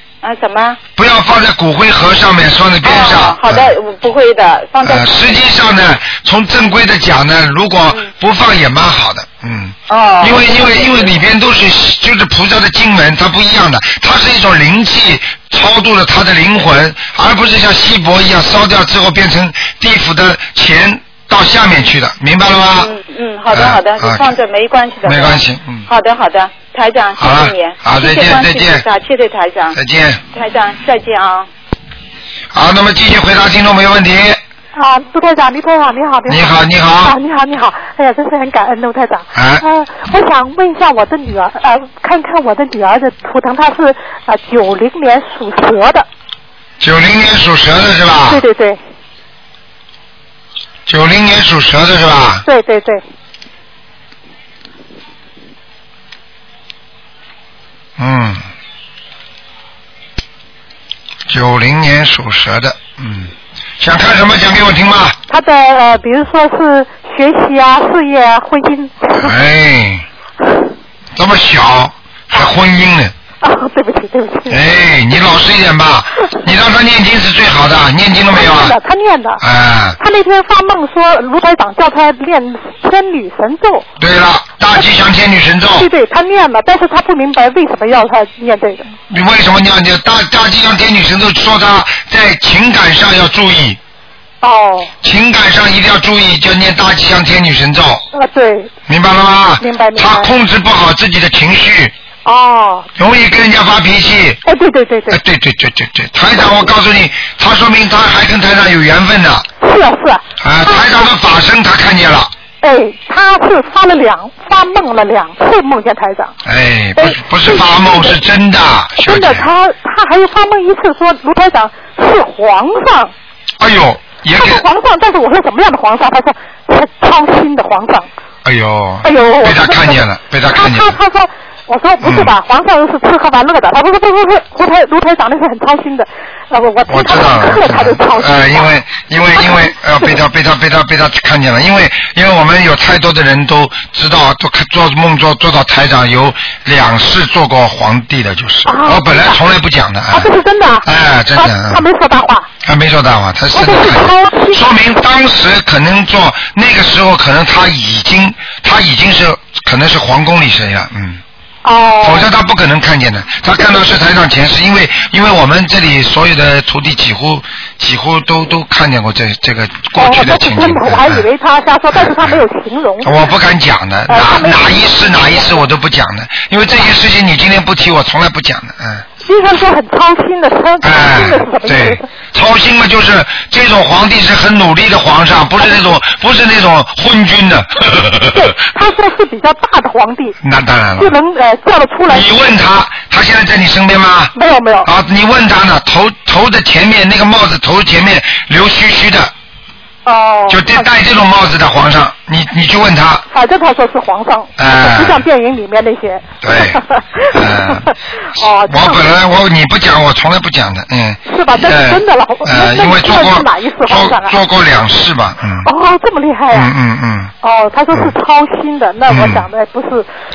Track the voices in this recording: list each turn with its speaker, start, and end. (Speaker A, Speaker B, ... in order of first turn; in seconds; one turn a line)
Speaker A: 0.2-0.8
Speaker B: 1.0-3.8
Speaker A: 2.8-5.2
Speaker B: 4.8-22.9
Speaker A: 9.9-11.1
Speaker A: 22.8-29.8
Speaker B: 23.5-24.4
Speaker B: 25.0-25.9
Speaker B: 27.2-28.9
Speaker B: 29.7-30.2
Speaker A: 30.3-31.5
Speaker B: 32.5-34.4
Speaker C: 34.7-46.1
Speaker B: 36.3-37.1
Speaker B: 39.3-39.6
Speaker B: 46.8-48.4
Speaker C: 48.3-48.8
Speaker B: 50.9-52.4
Speaker C: 52.5-53.0
Speaker B: 58.0-58.4
Speaker B: 61.3-65.2
Speaker C: 65.3-69.3
Speaker B: 69.1-70.0
Speaker B: 71.2-73.1
Speaker C: 73.4-74.6
Speaker B: 74.5-78.8
Speaker C: 78.3-79.4
Speaker B: 79.4-80.0
Speaker C: 80.0-83.8
Speaker B: 84.0-85.9
Speaker C: 85.8-88.9
Speaker B: 89.1-93.8
Speaker C: 94.4-94.9
Speaker B: 95.0-98.0
Speaker C: 98.1-98.7
Speaker B: 98.9-101.9
Speaker C: 99.6-100.3
Speaker C: 102.2-102.9
Speaker B: 103.0-104.4
Speaker C: 104.4-105.2
Speaker B: 105.1-109.5
Speaker C: 109.6-111.1
Speaker B: 110.4-112.3
Speaker C: 112.6-116.3
Speaker B: 116.5-119.5
Speaker C: 117.0-118.2
Speaker C: 119.0-123.1
Speaker B: 123.6-124.6
Speaker C: 124.3-128.1
Speaker B: 128.4-130.9
Speaker C: 129.0-140.1
Speaker B: 132.0-132.3
Speaker B: 136.9-150.3
Speaker C: 148.7-149.4
Speaker C: 150.1-152.5
Speaker B: 150.8-151.8
Speaker B: 152.6-161.2
Speaker C: 153.5-154.6
Speaker C: 161.6-162.3
Speaker B: 162.0-171.2
Speaker C: 169.9-173.2
Speaker B: 171.9-172.4
Speaker B: 173.0-179.0
Speaker C: 174.1-174.6
Speaker C: 179.2-182.1
Speaker B: 180.8-188.5
Speaker C: 188.2-190.3
Speaker B: 190.4-191.2
Speaker C: 191.0-192.3
Speaker B: 192.1-194.3
Speaker C: 194.3-194.9
Speaker B: 194.8-199.3
Speaker C: 200.0-200.9
Speaker B: 200.5-203.2
Speaker C: 203.3-209.1
Speaker B: 204.6-205.2
Speaker B: 206.4-206.8
Speaker B: 207.3-207.9
Speaker B: 208.6-215.7
Speaker C: 211.3-214.4
Speaker C: 215.6-216.7
Speaker B: 216.5-217.3
Speaker C: 217.4-220.1
Speaker B: 219.1-219.4